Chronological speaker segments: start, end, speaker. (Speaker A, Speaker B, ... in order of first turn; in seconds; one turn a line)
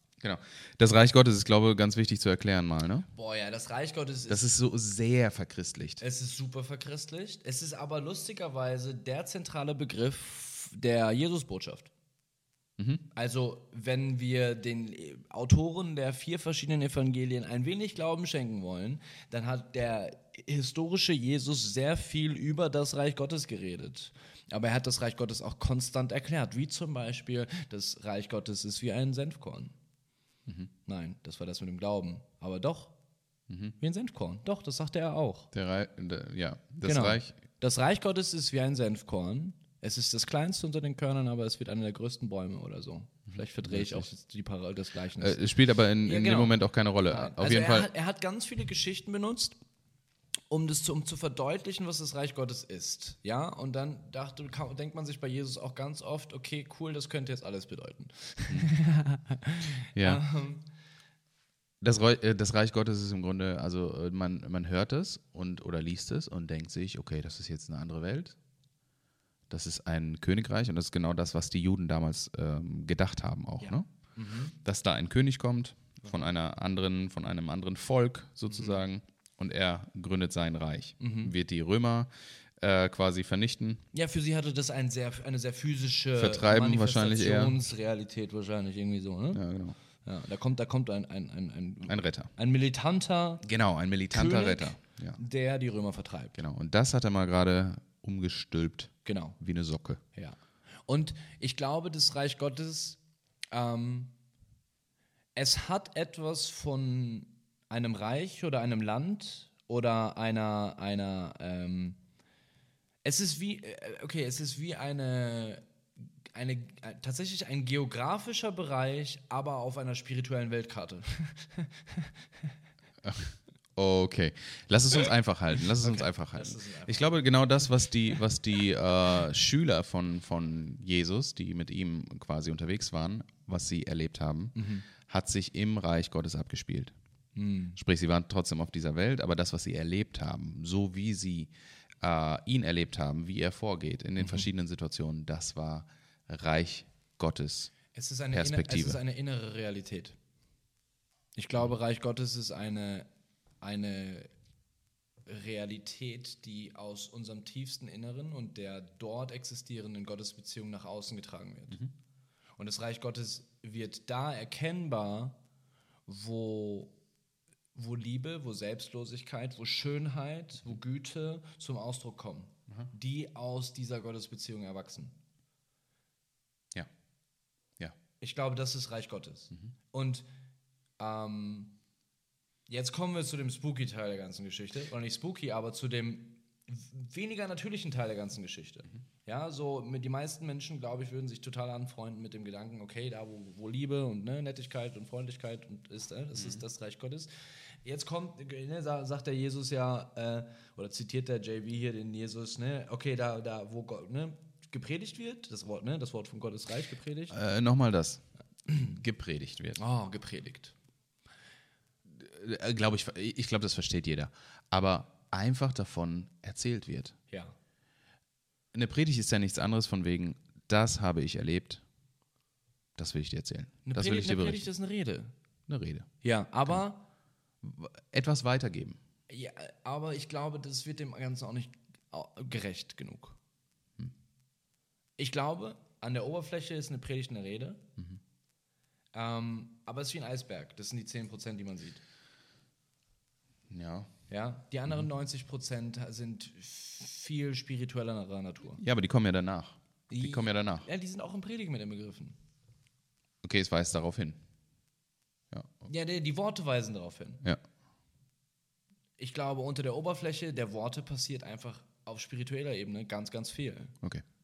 Speaker A: 0.2-3.1
Speaker B: 3.1-4.5
Speaker A: 4.3-6.0
Speaker B: 6.0-11.9
Speaker A: 12.8-13.0
Speaker B: 13.1-29.7
Speaker B: 30.9-33.0
Speaker A: 33.5-33.8
Speaker B: 33.8-35.5
Speaker A: 35.5-37.3
Speaker B: 36.8-45.4
Speaker A: 43.3-44.1
Speaker A: 45.2-47.9
Speaker B: 46.0-49.6
Speaker B: 50.5-60.6
Speaker A: 60.0-60.2
Speaker A: 61.8-68.4
Speaker A: 69.5-73.9
Speaker B: 73.6-74.5
Speaker A: 74.6-82.1
Speaker B: 81.0-81.3
Speaker A: 82.6-83.8
Speaker B: 83.9-89.5
Speaker A: 86.2-87.6
Speaker A: 89.3-89.8
Speaker B: 90.0-93.5
Speaker A: 91.9-92.3
Speaker A: 93.4-95.2
Speaker B: 94.1-96.4
Speaker A: 96.3-100.0
Speaker B: 99.0-99.4
Speaker B: 100.1-104.1
Speaker B: 105.4-112.0
Speaker B: 113.0-115.6
Speaker B: 116.3-122.1
Speaker A: 123.0-136.9
Speaker B: 125.8-127.3
Speaker B: 134.6-134.9
Speaker B: 137.3-137.8
Speaker A: 137.8-147.7
Speaker B: 144.2-144.5
Speaker B: 147.9-150.2
Speaker A: 148.3-149.0
Speaker B: 151.4-153.1
Speaker B: 153.6-154.3
Speaker B: 155.3-161.8
Speaker B: 162.6-165.4
Speaker B: 166.1-166.9
Speaker B: 167.8-175.2
Speaker B: 178.2-180.3
Speaker B: 181.0-181.7
Speaker B: 182.7-197.3
Speaker A: 196.3-196.6
Speaker B: 197.8-207.4
Speaker A: 207.3-209.8
Speaker B: 209.8-210.8
Speaker A: 212.1-217.2
Speaker A: 218.7-221.8
Speaker A: 223.0-224.7
Speaker B: 223.9-225.3
Speaker A: 225.7-226.1
Speaker B: 226.2-227.1
Speaker A: 227.6-229.0
Speaker B: 229.3-233.4
Speaker B: 235.2-237.8
Speaker B: 239.1-242.0
Speaker A: 243.7-244.1
Speaker B: 244.3-248.8
Speaker A: 248.8-250.9
Speaker B: 250.1-252.4
Speaker A: 253.4-254.4
Speaker B: 255.9-257.4
Speaker B: 259.2-263.9